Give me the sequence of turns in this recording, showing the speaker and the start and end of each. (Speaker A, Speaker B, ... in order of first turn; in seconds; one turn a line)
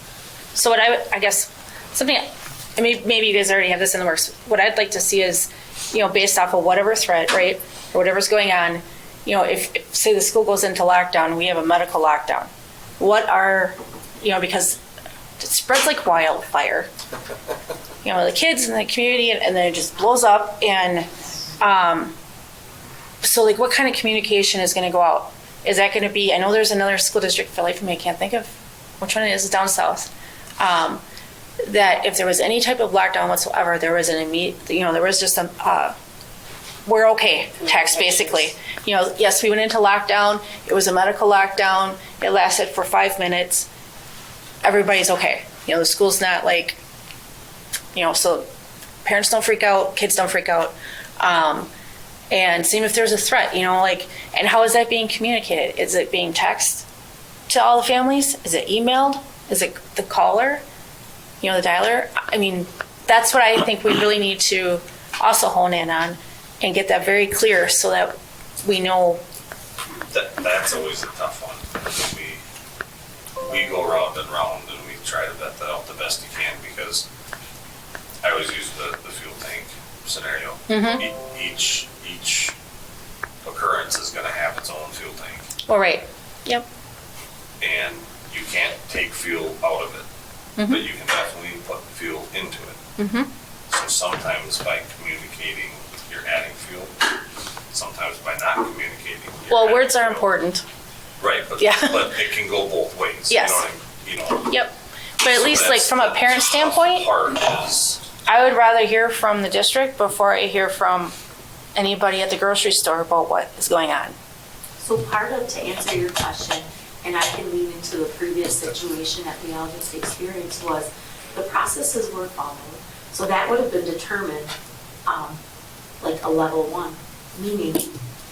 Speaker A: 0.5-14.8
Speaker A: 15.4-16.9
Speaker A: 18.0-22.1
Speaker A: 23.2-30.1
Speaker A: 30.6-31.0
Speaker A: 31.6-35.9
Speaker A: 36.8-43.7
Speaker A: 44.6-46.8
Speaker A: 47.9-48.4
Speaker A: 49.0-51.7
Speaker A: 52.3-56.9
Speaker A: 57.5-60.6
Speaker A: 61.4-69.2
Speaker B: 70.1-72.4
Speaker B: 73.4-77.0
Speaker B: 78.2-82.5
Speaker A: 80.7-81.0
Speaker B: 83.4-85.5
Speaker A: 85.7-86.6
Speaker B: 87.6-90.0
Speaker A: 90.6-90.8
Speaker B: 90.7-92.8
Speaker A: 93.0-93.3
Speaker B: 93.7-97.1
Speaker B: 97.7-100.2
Speaker A: 99.5-100.6
Speaker B: 101.2-104.5
Speaker A: 101.6-102.2
Speaker A: 103.3-103.6
Speaker A: 104.5-107.0
Speaker B: 105.2-108.0
Speaker A: 108.3-111.1
Speaker A: 111.7-114.1
Speaker C: 114.8-124.5
Speaker C: 125.0-125.4
Speaker C: 126.0-127.9